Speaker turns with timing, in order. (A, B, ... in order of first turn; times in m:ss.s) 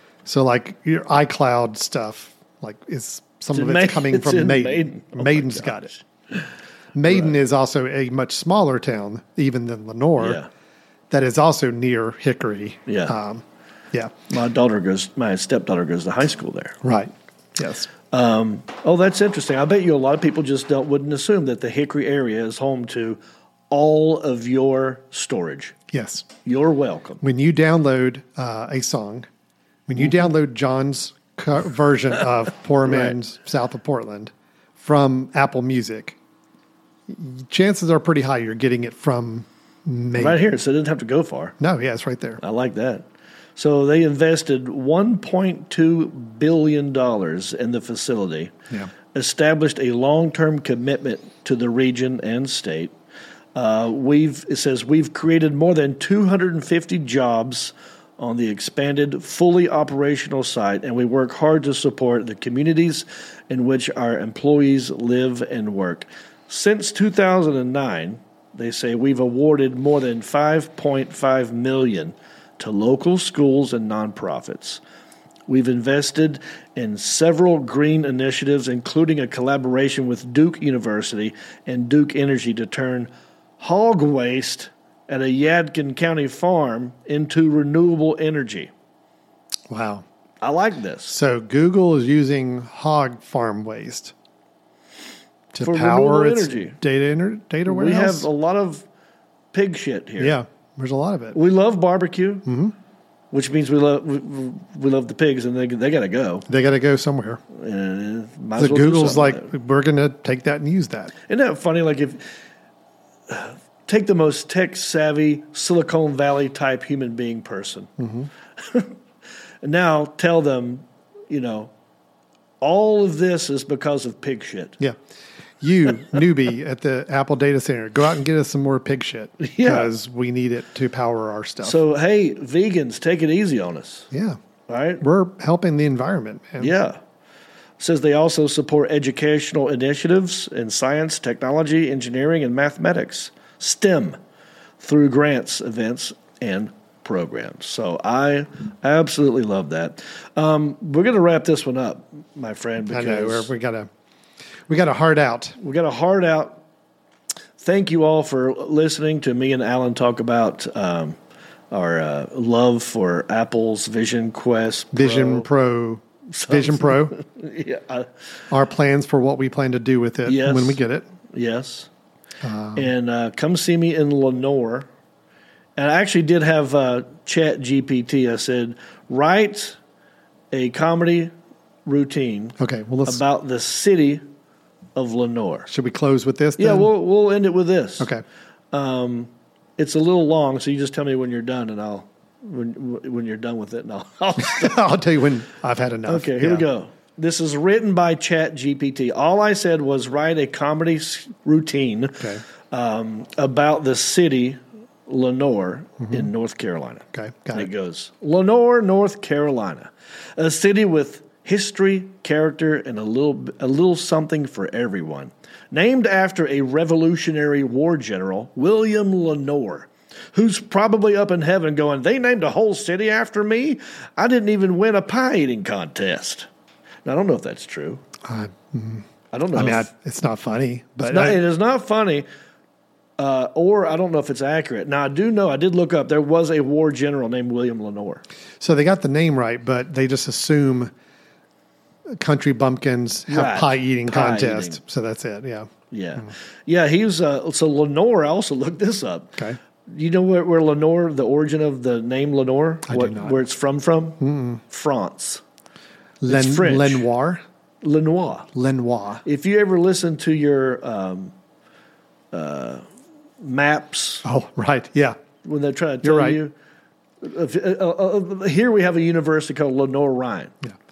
0:00.2-0:05.9 A
0:03.5-0:06.5 B
0:07.0-0:10.4 A
0:07.1-0:07.3 B
0:10.2-0:10.5 B
0:11.1-0:14.1 A
0:12.9-0:13.2 B
0:14.3-0:16.8 B
0:16.8-0:17.9 A
0:18.1-0:23.2 B
0:23.7-0:25.8 B
0:25.9-0:26.3 A
0:26.4-0:27.2 B
0:27.2-0:29.3 A
0:29.9-0:36.2 A
0:32.8-0:33.2 B
0:37.1-0:40.5 A
0:40.2-0:41.6 B
0:41.6-0:42.4 A
0:42.4-0:48.5 B
0:49.1-0:52.9 B
0:53.6-1:14.8 B
1:15.5-1:28.7 B
1:29.7-1:30.0 A
1:30.4-1:31.2 B
1:31.1-1:34.1 A
1:35.5-1:38.3 A
1:35.6-1:36.8 B
1:37.7-1:38.9 B
1:39.5-1:40.4 B
1:40.2-1:41.4 A
1:41.3-1:42.5 B
1:42.5-1:42.8 A
1:43.3-1:46.5 B
1:46.5-1:47.4 A
1:47.5-1:49.5 B
1:48.6-1:51.1 A
1:51.3-1:52.3 B
1:53.3-1:57.9 B
1:58.0-1:58.3 A
1:58.6-1:58.9 B
1:59.6-2:01.7 B
2:02.6-2:04.8 B
2:05.6-2:11.8 A
2:09.4-2:09.9 B
2:11.6-2:14.1 B
2:14.1-2:14.4 A
2:14.7-2:15.0 B
2:15.0-2:16.8 A
2:16.6-2:17.0 B
2:17.8-2:24.2 B
2:24.8-2:33.5 B
2:32.9-2:33.9 A
2:34.7-2:35.6 A
2:35.6-2:36.6 B
2:37.6-2:41.2 B
2:41.7-2:45.5 B
2:44.9-2:47.2 A
2:46.3-2:48.1 B
2:48.5-2:51.1 A
2:50.2-2:50.8 B
2:51.3-2:51.9 B
2:52.4-2:52.9 A
2:52.8-2:54.9 B
2:55.8-2:59.8 B
3:00.5-3:01.3 B
3:01.9-3:04.2 B
3:02.6-3:03.2 A
3:05.0-3:05.7 B
3:05.7-3:06.9 A
3:06.6-3:08.1 B
3:08.7-3:14.9 B
3:14.4-3:16.7 A
3:16.1-3:46.5 B
3:27.1-3:27.7 A
3:47.0-3:48.0 B
3:48.2-3:51.4 A
3:49.3-3:49.9 B
3:51.0-3:52.3 B
3:53.2-3:58.2 B
3:58.6-4:00.9 A
4:02.1-4:06.3 A
4:03.3-4:04.8 B
4:05.9-4:09.4 B
4:09.9-4:15.4 B
4:12.9-4:13.4 A
4:14.2-4:14.6 A
4:16.2-4:17.4 A
4:16.3-4:17.1 B
4:17.8-4:18.5 B
4:18.6-4:19.2 A
4:19.2-4:21.3 B
4:22.3-4:22.9 B
4:23.4-4:24.3 B
4:24.2-4:25.2 A
4:25.4-4:26.5 B
4:26.0-4:26.4 A
4:27.2-4:30.5 B